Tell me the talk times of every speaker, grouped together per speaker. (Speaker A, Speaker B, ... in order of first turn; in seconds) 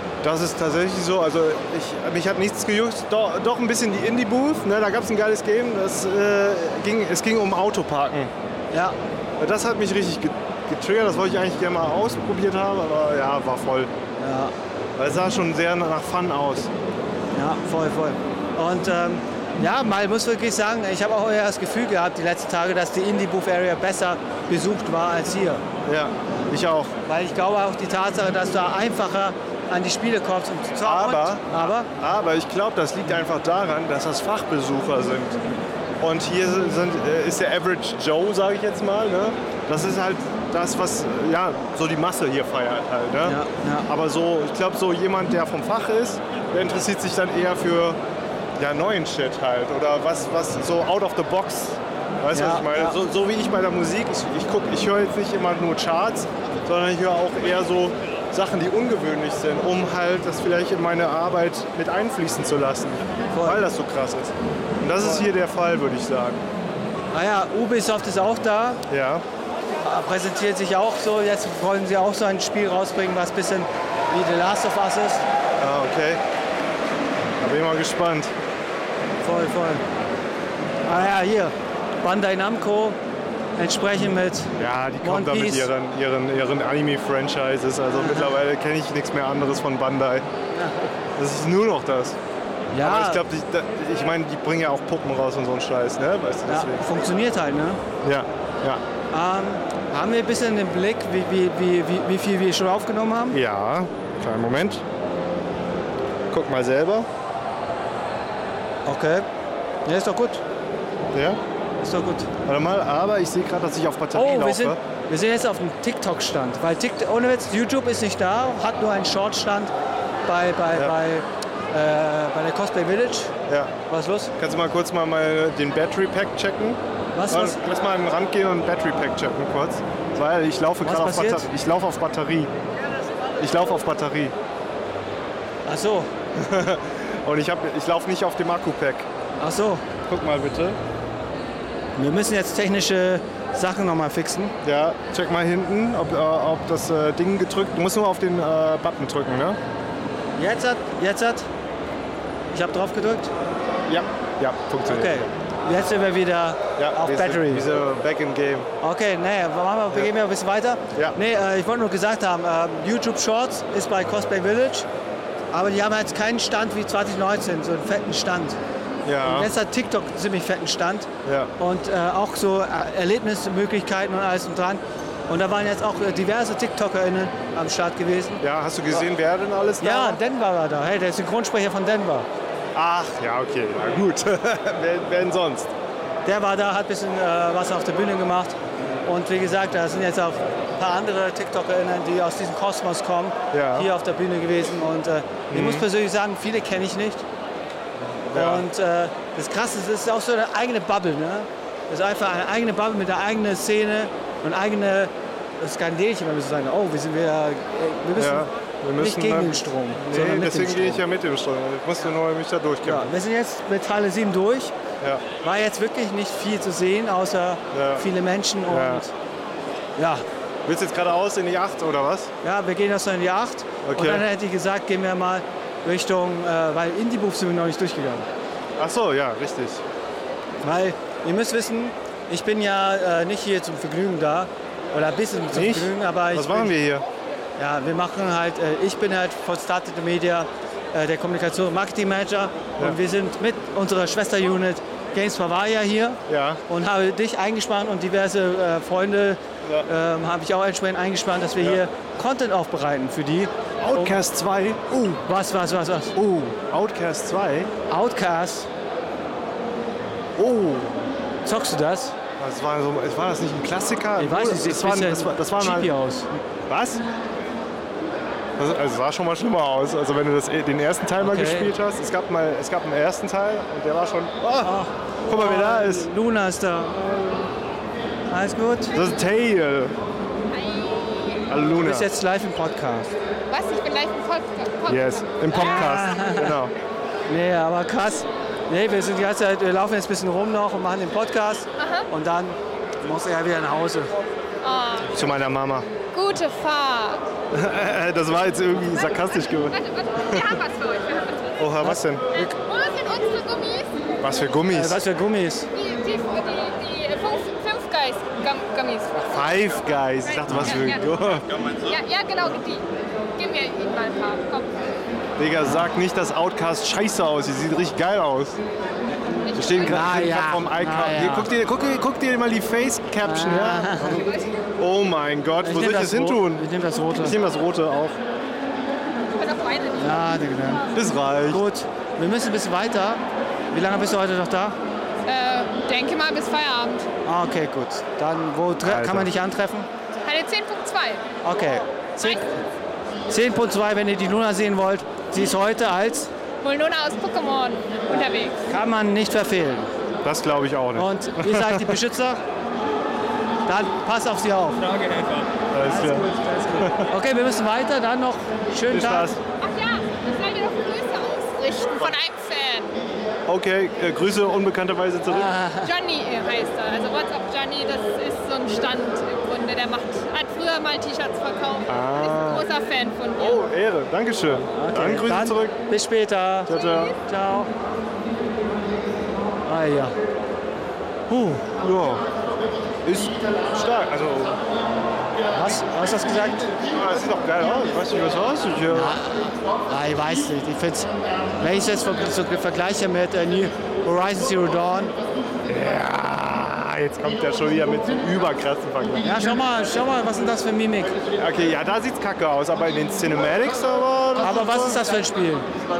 Speaker A: 0.2-8.3, 9.4-13.9, 15.0-16.7, 25.8-26.9, 30.8-35.4, 36.0-48.0, 48.6-66.4, 68.9-69.2, 75.6-76.2, 77.4-78.3, 84.6-90.2, 91.2-92.2, 92.8-96.8, 98.0-98.8, 103.3-104.8, 106.3-107.1, 111.1-111.4, 112.4-114.8, 123.5-123.7, 124.4-132.5, 133.4-134.3, 136.3-139.1, 140.1-140.8, 144.6-149.6, 153.9-155.3, 156.8-158.7, 169.0-169.5, 171.2-171.5, 178.4-180.2, 182.7-185.7, 193.5-193.9, 195.5-195.8, 198.3-198.6, 208.2-213.1, 217.7-218.0, 218.7-219.0, 220.7-222.3, 223.8-224.2, 228.8-229.8, 235.5-237.0, 246.3-246.6, 253.8-255.2, 256.1-257.7, 260.4-261.0, 262.4-265.9, 266.7-267.0, 268.6-274.7, 275.3-276.1, 278.9-279.9, 281.5-282.1, 284.9-286.7, 295.1-295.9, 297.5-299.8, 301.6-302.2, 304.2-305.0, 309.2-311.5, 315.4-318.6, 319.5-328.2, 330.9-331.6, 338.8-339.3, 350.2-352.0, 355.7-356.3, 356.8-357.1, 358.9-359.4, 363.5-365.5, 371.9-372.6, 373.4-375.8, 376.7-377.1, 381.5-382.2, 383.0-384.6, 386.8-389.2, 395.6-399.3, 401.4-405.0
Speaker B: 14.2-14.5, 17.3-25.6, 27.1-31.9, 43.2-43.9, 52.3-53.0, 63.3-63.6, 67.1-68.8, 69.8-75.2, 79.2-79.8, 80.8-83.0, 83.6-85.7, 87.9-88.3, 90.5-90.9, 92.7-93.2, 96.5-97.8, 99.1-103.4, 108.8-109.2, 109.8-110.4, 111.8-112.3, 114.1-119.7, 120.3-123.3, 123.9-124.3, 127.1-127.6, 130.8-131.5, 135.7-136.1, 139.4-139.8, 141.9-144.5, 150.4-151.5, 152.5-153.3, 154.9-157.6, 158.8-164.8, 165.5-168.6, 169.2-179.1, 179.8-182.3, 186.2-197.2, 198.3-211.0, 212.8-214.7, 215.4-219.1, 220.0-220.2, 222.4-228.3, 230.6-236.7, 237.6-254.2, 255.2-256.1, 257.9-258.7, 261.4-262.1, 264.2-266.4, 271.2-271.7, 274.6-277.5, 278.3-278.9, 281.8-283.1, 285.5-286.6, 287.3-294.1, 301.8-302.5, 304.7-305.7, 310.5-310.8, 319.8-321.5, 323.2-324.2, 325.6-327.4, 330.0-330.9, 331.5-334.8, 337.2-339.9, 341.4-342.6, 343.3-346.3, 348.7-349.9, 350.9-352.4, 353.7-354.9, 355.8-359.3, 365.2-365.9, 374.7-377.7, 379.6-380.1, 381.3-381.6, 385.5-386.7, 388.9-395.1, 399.2-401.2, 404.4-405.7
Speaker C: 280.5-281.4, 283.5-286.1, 291.8-292.1, 294.6-295.1, 296.1-297.2, 299.0-301.7, 302.3-304.1, 305.7-312.8, 313.4-314.8, 319.4-320.0, 324.1-324.6, 329.3-330.3, 335.2-337.1, 340.2-341.2, 346.6-348.6, 359.6-362.9, 365.8-373.6, 376.8-377.1